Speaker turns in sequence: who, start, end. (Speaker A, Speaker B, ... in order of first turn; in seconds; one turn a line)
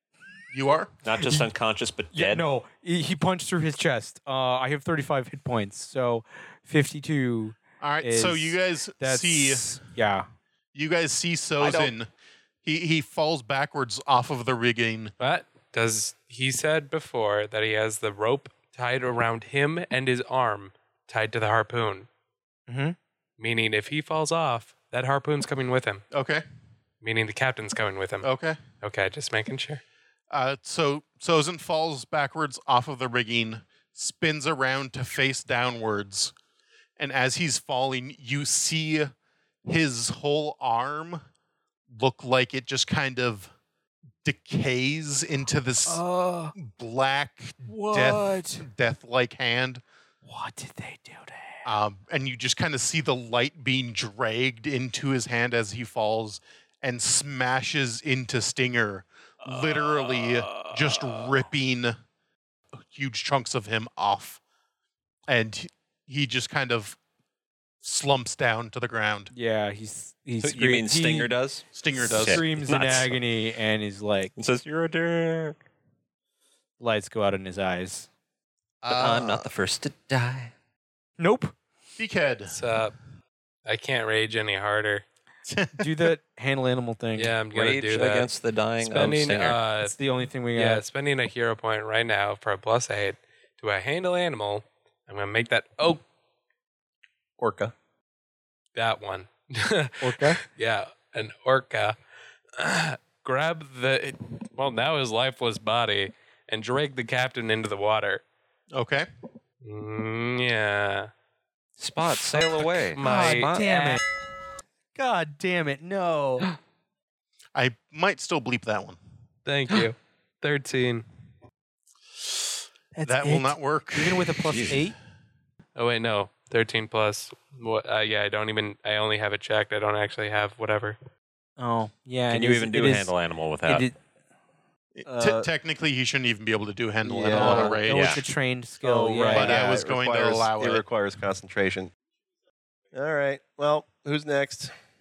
Speaker A: 0.5-0.9
Speaker B: 1.0-2.4
Speaker C: 1.2-1.5
Speaker C: 2.1-10.3
Speaker A: 7.8-9.7
Speaker A: 10.7-12.1
Speaker B: 11.6-11.9
Speaker A: 12.6-15.1
Speaker D: 15.2-22.1
Speaker C: 22.7-22.9
Speaker D: 23.4-26.0
Speaker A: 26.1-26.4
Speaker D: 27.0-28.3
Speaker A: 28.2-28.6
Speaker D: 28.8-29.8
Speaker A: 30.3-36.3
Speaker A: 37.0-39.1
Speaker A: 39.6-41.2
Speaker A: 41.9-43.5
Speaker A: 44.2-46.0
Speaker C: 45.9-46.5
Speaker A: 46.5-49.8
Speaker C: 47.6-48.6
Speaker C: 50.2-51.7
Speaker A: 51.6-62.0
Speaker C: 59.4-61.4
Speaker A: 62.9-64.4
Speaker A: 65.3-67.0
Speaker A: 67.8-69.3
Speaker C: 69.3-71.3
Speaker B: 70.4-73.2
Speaker A: 71.7-72.4
Speaker C: 72.1-74.3
Speaker B: 74.4-75.6
Speaker C: 76.8-78.1
Speaker A: 78.8-79.5
Speaker B: 78.9-80.5
Speaker C: 81.2-81.5
Speaker A: 82.0-82.6
Speaker D: 82.5-82.9
Speaker D: 83.6-85.0
Speaker A: 85.5-86.1
Speaker C: 85.8-87.4
Speaker D: 87.2-89.9
Speaker B: 87.5-89.6
Speaker C: 89.8-90.8
Speaker D: 90.5-96.0
Speaker E: 97.4-97.7
Speaker D: 98.7-102.0
Speaker C: 100.0-100.4
Speaker D: 102.6-108.2
Speaker A: 108.7-109.1
Speaker D: 109.6-111.1
Speaker B: 111.8-113.7
Speaker D: 112.3-114.0
Speaker C: 113.0-114.0
Speaker C: 114.9-116.5
Speaker A: 117.5-119.0
Speaker D: 119.4-121.0
Speaker C: 122.9-125.0
Speaker A: 123.0-124.4
Speaker B: 124.5-124.8
Speaker D: 125.8-131.0
Speaker C: 131.6-133.1
Speaker B: 132.3-133.9
Speaker C: 133.6-134.0
Speaker A: 134.9-138.2
Speaker E: 135.0-135.5
Speaker E: 137.0-137.8
Speaker C: 137.3-139.6
Speaker B: 137.9-138.2
Speaker E: 138.8-141.9
Speaker A: 139.3-140.8
Speaker E: 142.9-144.7